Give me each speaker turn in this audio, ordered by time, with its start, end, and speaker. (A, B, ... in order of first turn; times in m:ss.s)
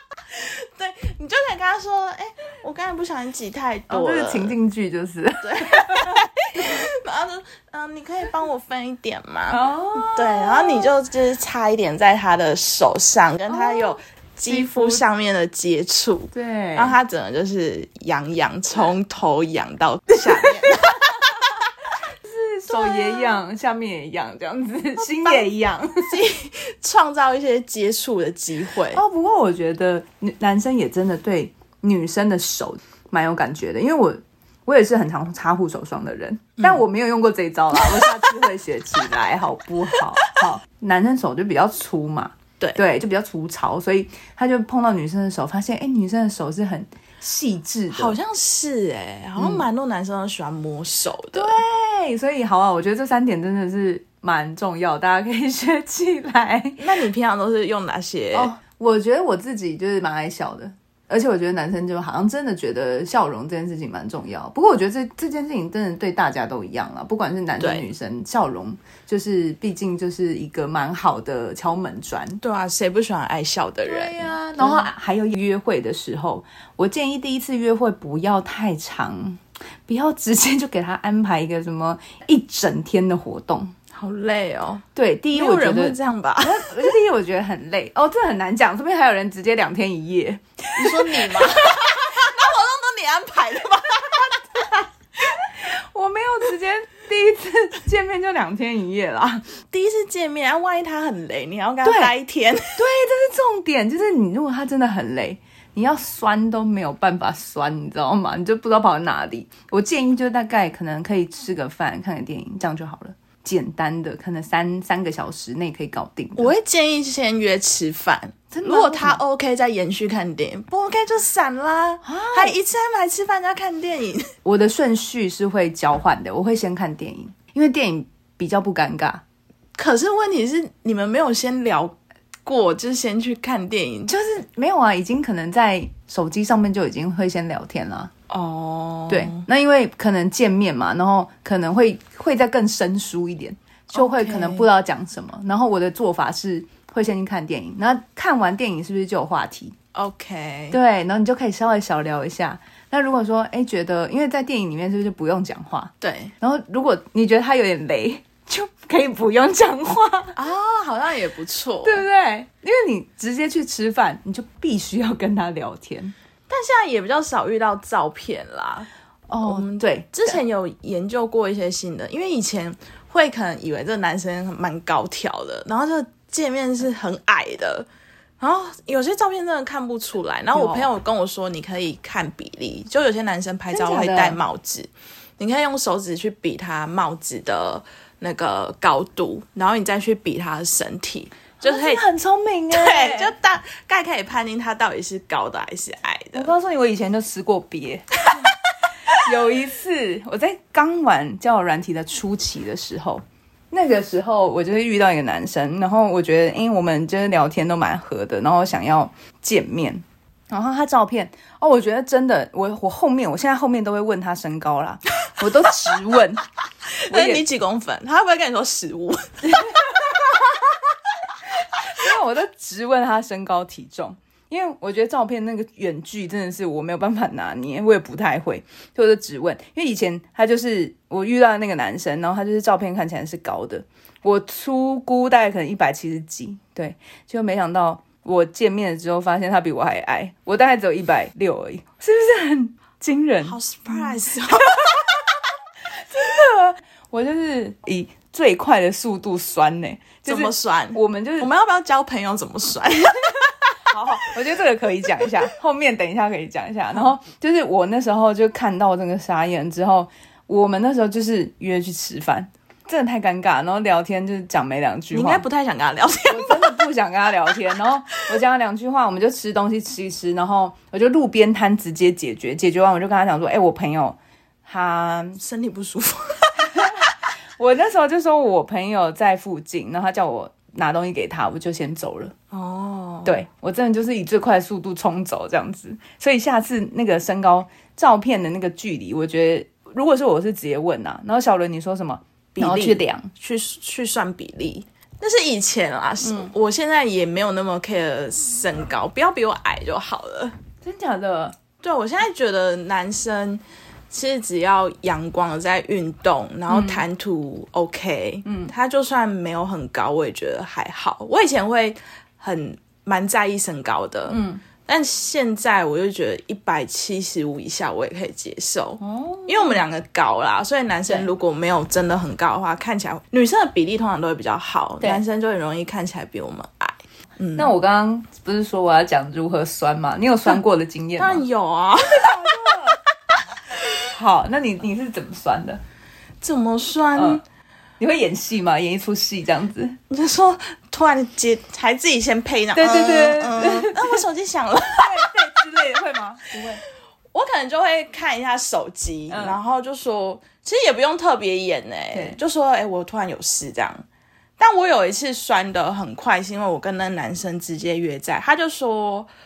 0:00.3-0:04.5 A
0:03.9-0:06.8 B
0:05.4-0:21.3 A
0:09.5-0:10.9 B
0:13.5-0:15.0 B
0:16.3-0:17.0 B
0:22.2-0:26.2 B
0:22.7-0:23.4 A
0:25.0-0:29.0 A
0:28.9-0:48.2 B
0:37.8-0:38.4 A
0:47.9-0:51.6 A
0:49.4-0:49.6 B
0:51.3-0:56.8 B
0:56.8-0:58.5 A
0:58.3-1:12.4 B
1:07.6-1:07.8 A
1:12.4-1:14.9 A
1:13.9-1:23.7 B
1:23.9-1:26.9 A
1:24.9-1:32.2 B
1:30.8-1:34.9 A
1:35.6-1:39.5 B
1:39.7-1:42.8 A
1:41.8-1:42.1 B
1:42.7-1:56.5 B
1:56.4-2:04.3 A
1:58.5-1:59.2 B
2:02.0-2:02.6 B
2:04.4-2:09.2 B
2:09.8-2:14.1 A
2:14.1-2:18.1 B
2:18.3-2:19.4 A
2:19.1-2:29.7 B
2:23.9-2:24.7 A
2:29.9-2:30.8 A
2:30.7-2:40.4 B
2:36.0-2:36.3 A
2:40.4-2:42.0 A
2:41.8-2:46.1 B
2:46.5-2:48.9 A
2:49.3-2:50.4 B
2:49.4-2:57.9 A
2:58.4-3:12.0 A
3:00.5-3:00.9 B
3:03.7-3:04.4 B
3:11.6-3:13.3 B
3:12.7-3:16.5 A
3:16.3-3:18.5 B
3:19.1-3:36.4 B
3:37.0-3:40.0 A
3:37.1-3:37.4 B
3:39.4-3:40.0 B
3:41.8-4:05.3 B
4:03.4-4:04.8 A
4:06.1-4:11.5 B
4:10.2-4:14.0 A
4:13.9-4:25.4 B
4:25.1-4:26.8 A
4:26.3-4:35.4 B
4:35.4-4:37.1 A
4:36.6-4:42.3 B
4:42.5-4:43.3 A
4:43.2-4:53.3 B
4:52.5-5:00.6 A
4:56.2-4:56.5 B
5:00.8-5:01.6 B
5:01.8-5:27.7 A
5:06.7-5:07.0 B
5:08.4-5:08.7 B
5:14.3-5:14.6 B
5:19.0-5:19.8 B
5:27.6-5:31.4 B
5:31.2-5:32.7 A
5:32.2-5:33.0 B
5:34.1-5:35.8 B
5:36.4-5:37.4 A
5:37.1-5:37.4 B
5:38.0-5:40.0 B
5:40.1-5:45.3 A
5:42.7-5:44.2 B
5:45.0-5:46.8 B
5:47.3-5:54.0 A
5:49.3-5:49.6 B
5:52.1-5:52.4 B
5:54.6-5:59.3 A